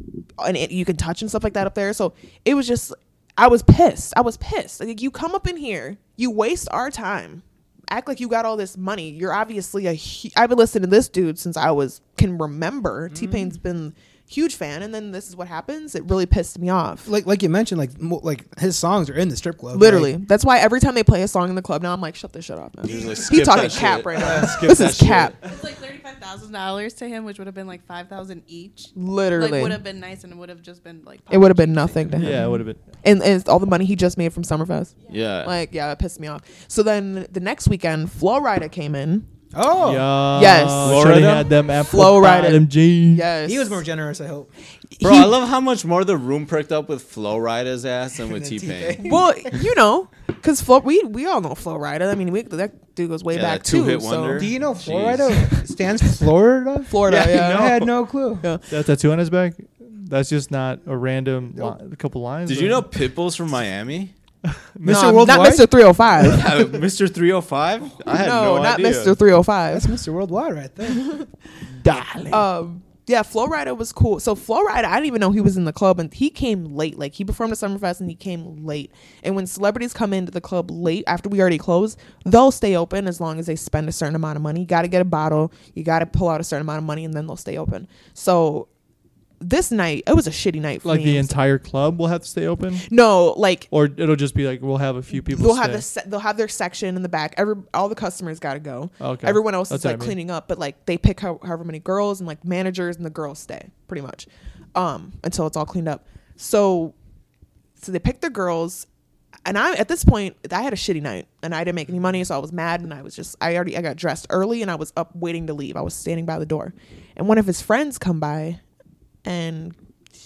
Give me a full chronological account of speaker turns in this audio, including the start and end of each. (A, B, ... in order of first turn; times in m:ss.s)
0:00.4-0:17.1 A
0:13.1-0:13.6 B
0:17.0-0:20.1 B
0:19.7-0:25.3 A
0:22.8-0:25.4 C
0:24.2-0:24.6 B
0:25.4-0:32.2 D
0:28.9-0:29.8 A
0:31.3-0:39.2 A
0:32.2-0:32.8 E
0:32.2-0:32.6 B
0:35.1-0:35.5 C
0:39.5-0:40.3 B
0:39.8-0:43.3 E
0:40.3-0:41.2 A
0:40.8-0:41.5 C
0:41.8-0:43.8 A
0:43.4-0:44.5 B
0:45.0-0:45.3 A
0:45.0-0:49.1 C
0:48.2-0:49.4 B
0:49.0-0:54.5 A
0:53.3-0:55.3 C
0:54.3-0:58.5 B
0:56.9-0:57.9 A
0:58.4-0:58.6 A
0:58.7-1:02.8 E
1:02.4-1:04.1 C
1:04.8-1:05.4 E
1:04.8-1:05.7 B
1:04.8-1:06.5 A
1:06.2-1:09.2 C
1:08.2-1:10.0 A
1:09.7-1:11.1 B
1:10.9-1:11.3 A
1:11.8-1:12.4 E
1:12.3-1:28.7 A
1:29.4-1:31.4 A
1:30.8-1:32.9 E
1:32.9-1:33.7 A
1:33.7-1:35.8 E
1:35.1-1:46.9 A
1:39.0-1:40.2 E
1:47.8-1:48.9 A
1:49.4-1:58.6 A
1:59.2-1:59.8 A